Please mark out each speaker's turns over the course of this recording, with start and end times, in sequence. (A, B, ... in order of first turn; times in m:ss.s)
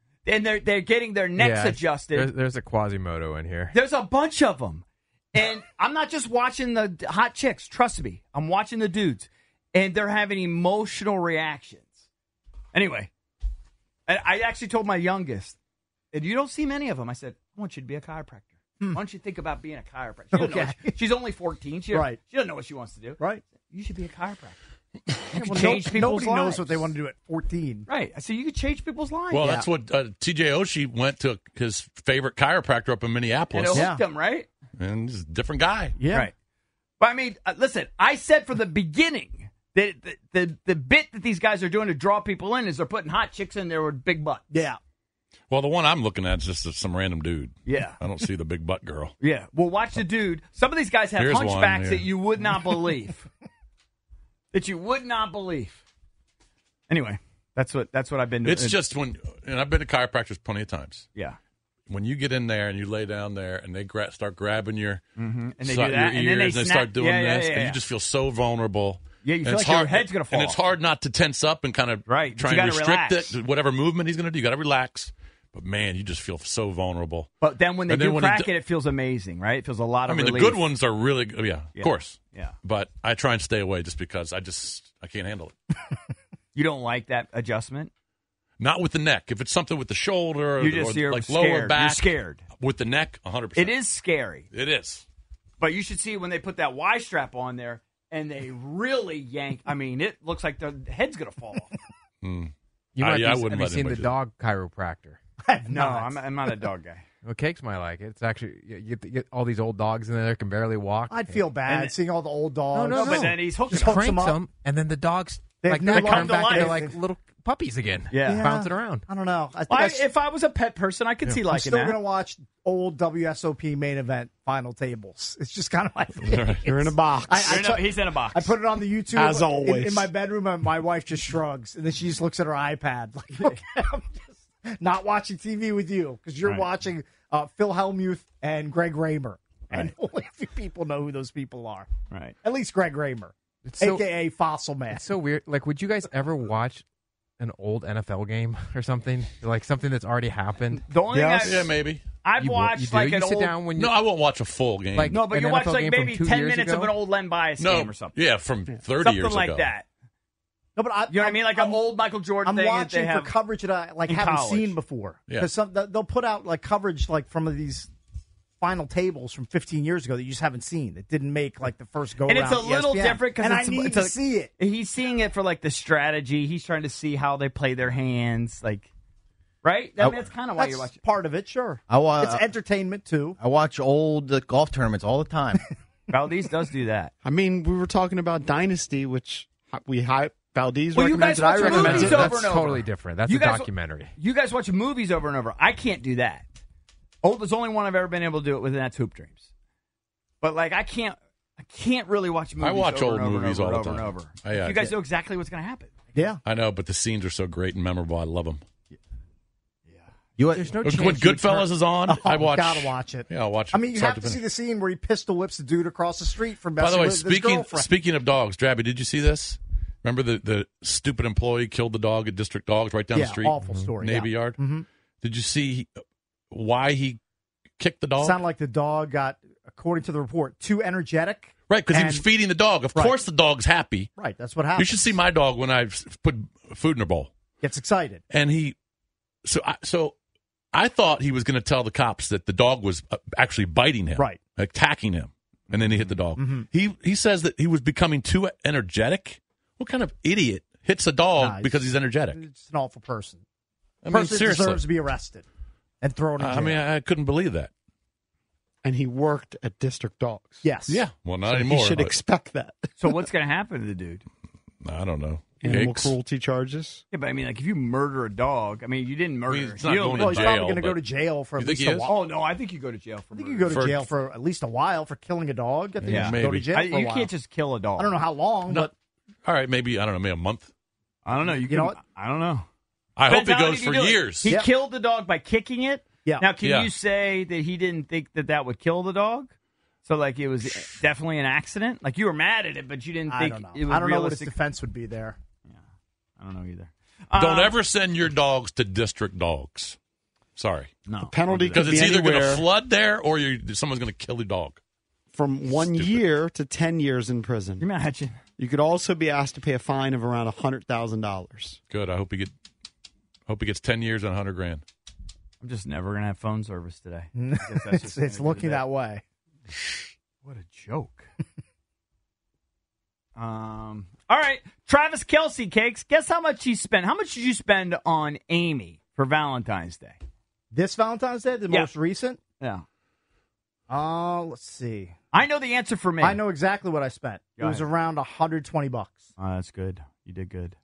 0:00.2-0:02.3 A
0:01.4-0:03.7 B
0:03.7-0:12.0 A
0:12.7-0:13.1 A
0:14.1-0:15.6 A
0:16.1-0:24.6 A
0:20.3-0:21.0 C
0:21.9-0:22.2 C
0:23.2-0:23.4 C
0:25.3-0:26.9 A
0:25.3-0:27.9 C
0:27.9-0:29.5 A
0:29.3-0:33.9 D
0:33.5-0:34.5 A
0:33.7-0:34.0 C
0:34.8-0:36.0 D
0:36.0-0:36.3 C
0:36.0-0:36.3 A
0:37.0-0:44.4 A
0:44.5-0:44.8 C
0:45.5-0:49.1 D
0:47.6-0:48.0 A
0:49.2-0:53.3 A
0:51.2-0:52.1 D
0:54.5-0:55.8 A
0:56.9-0:58.8 A
0:58.4-1:01.1 D
1:01.9-1:05.0 D
1:05.2-1:07.8 A
1:05.6-1:17.3 D
1:09.2-1:10.6 A
1:12.0-1:13.3 A
1:17.4-1:20.6 A
1:17.9-1:18.5 D
1:20.1-1:25.5 D
1:21.7-1:22.5 A
1:26.5-1:27.9 A
1:28.6-1:33.8 D
1:30.6-1:32.4 A
1:33.5-1:34.4 A
1:34.5-1:35.0 D
1:35.6-1:41.7 A
1:42.2-1:44.1 D
1:43.0-1:45.2 B
1:45.4-1:46.2 C
1:45.7-1:47.0 A
1:47.2-1:51.4 B
1:51.1-1:54.4 C
1:51.6-1:51.9 A
1:52.7-1:59.0 B
1:52.9-1:54.2 A
1:55.6-1:56.9 C
1:55.8-1:56.9 A
1:58.1-1:58.5 A
1:58.2-2:00.0 C
1:59.7-2:02.0 A
2:01.4-2:21.9 C
2:06.2-2:06.6 D
2:06.6-2:07.7 E
2:07.4-2:08.6 A
2:09.1-2:10.1 E
2:22.1-2:22.3 A
2:22.4-2:25.0 C
2:23.6-2:24.0 B
2:24.9-2:26.8 B
2:27.4-2:30.8 B
2:30.8-2:31.7 A
2:31.1-2:31.6 E
2:31.4-2:32.0 D
2:32.2-2:33.7 A
2:32.4-2:33.9 B
2:33.7-2:35.2 D
2:34.9-2:37.0 B
2:35.1-2:38.2 A
2:37.6-2:39.7 D
2:39.0-2:39.8 A
2:40.8-2:41.8 C
2:41.1-2:43.3 A
2:42.4-2:47.9 C
2:44.0-2:44.8 A
2:48.6-2:54.5 C
2:52.2-2:58.9 A
2:59.6-3:01.0 A
3:00.6-3:03.4 C
3:01.9-3:02.5 F
3:03.4-3:05.6 F
3:06.1-3:07.1 A
3:07.2-3:12.8 E
3:10.9-3:16.4 A
3:11.4-3:14.1 B
3:17.2-3:19.5 A
3:20.4-3:25.9 A
3:22.6-3:25.0 D
3:26.1-3:26.4 C
3:26.4-3:28.6 D
3:30.4-3:31.0 F
3:30.6-3:31.6 B
3:30.8-3:34.4 D
3:32.1-3:37.9 C
3:36.8-3:44.6 D
3:43.1-3:44.8 C
3:43.6-3:43.9 B
3:45.2-3:46.0 D
3:46.5-3:47.2 D
3:47.8-3:48.4 D
3:48.2-3:52.2 C
3:51.7-3:54.1 D
3:54.2-3:55.1 C
3:54.8-3:57.3 D
3:57.6-3:58.2 C
3:58.3-3:58.7 D
3:59.4-4:00.1 D
4:00.7-4:12.4 D
4:06.4-4:06.7 C
4:11.4-4:13.4 C
4:14.0-4:14.8 D
4:14.1-4:15.4 C
4:16.0-4:16.8 C
4:16.4-4:17.7 D
4:18.8-4:20.6 E
4:20.6-4:21.0 C
4:20.9-4:22.1 D
4:21.4-4:23.2 E
4:23.0-4:24.2 A
4:24.8-4:26.1 D
4:25.6-4:27.0 E
4:27.1-4:30.6 A
4:29.5-4:31.0 D
4:30.2-4:32.2 C
4:31.6-4:32.1 D
4:32.0-4:33.9 A
4:33.3-4:37.3 C
4:33.7-4:34.0 D
4:36.0-4:36.7 D
4:36.1-4:38.2 A
4:38.0-4:38.9 C
4:39.4-4:40.7 D
4:41.2-4:42.6 A
4:41.6-4:42.0 C
4:43.2-4:44.5 D
4:43.3-4:49.5 A
4:44.5-4:44.7 C
4:46.2-4:46.5 C
4:46.6-4:46.9 D
4:50.0-4:54.5 A
4:53.3-4:55.4 C
4:56.4-4:57.8 A
4:57.3-5:00.0 D
5:00.6-5:00.9 D
5:01.0-5:02.0 A
5:01.3-5:02.6 E
5:01.7-5:04.8 D
5:05.3-5:07.8 E
5:05.7-5:06.2 D
5:07.8-5:08.4 A
5:08.6-5:11.8 E
5:11.9-5:12.5 D
5:13.5-5:14.8 D
5:15.6-5:18.8 A
5:17.3-5:19.2 C
5:20.4-5:21.3 A
5:23.4-5:30.2 A
5:30.7-5:32.4 C
5:32.6-5:32.8 A
5:33.9-5:35.2 C
5:35.3-5:36.4 A
5:36.2-5:39.3 C
5:37.6-5:37.9 A
5:39.4-5:40.8 A